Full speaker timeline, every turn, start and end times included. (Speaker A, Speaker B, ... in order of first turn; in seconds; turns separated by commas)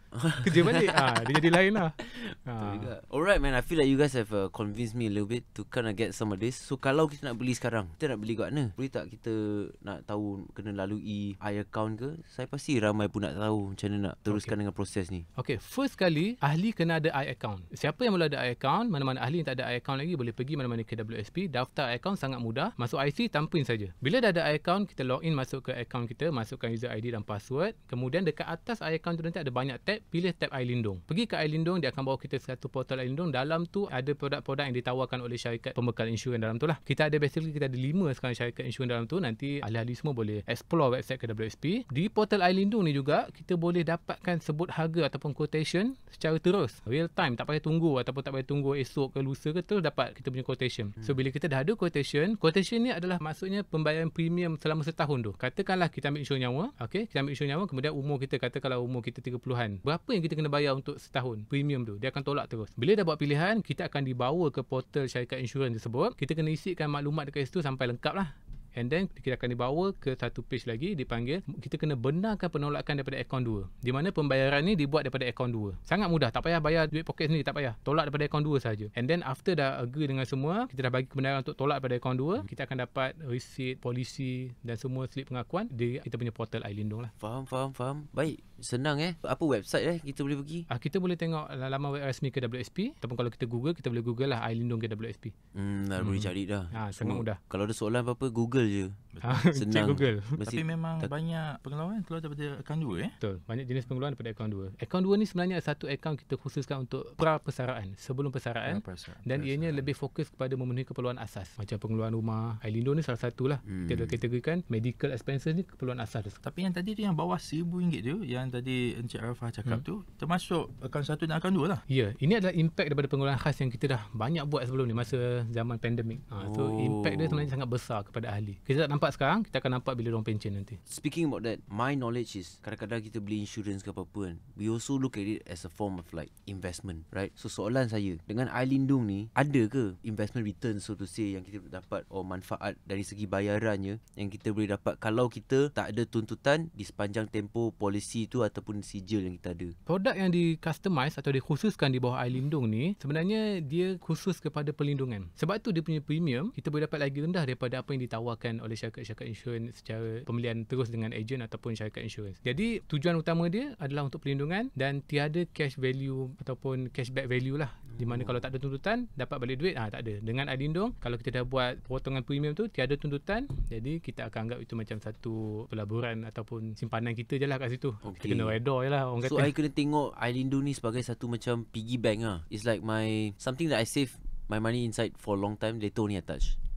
Speaker A: 0.1-15.2, Speaker B: 0.4-2.9, Speaker B: 15.4-87.1, Speaker A: 87.2-90.7, Speaker B: 90.7-95.3, Speaker A: 95.5-99.0, Speaker B: 96.0-97.4, Speaker C: 99.1-99.5, Speaker B: 99.2-100.4, Speaker A: 99.5-101.1, Speaker C: 100.5-103.2, Speaker B: 103.2-116.4, Speaker C: 108.7-109.9, Speaker A: 113.7-114.2, Speaker C: 116.4-121.8, Speaker B: 121.9-130.8, Speaker A: 126.4-127.5, Speaker A: 130.9-149.8, Speaker B: 149.9-179.5, Speaker A: 167.9-168.5, Speaker A: 178.0-178.6, Speaker A: 179.2-186.6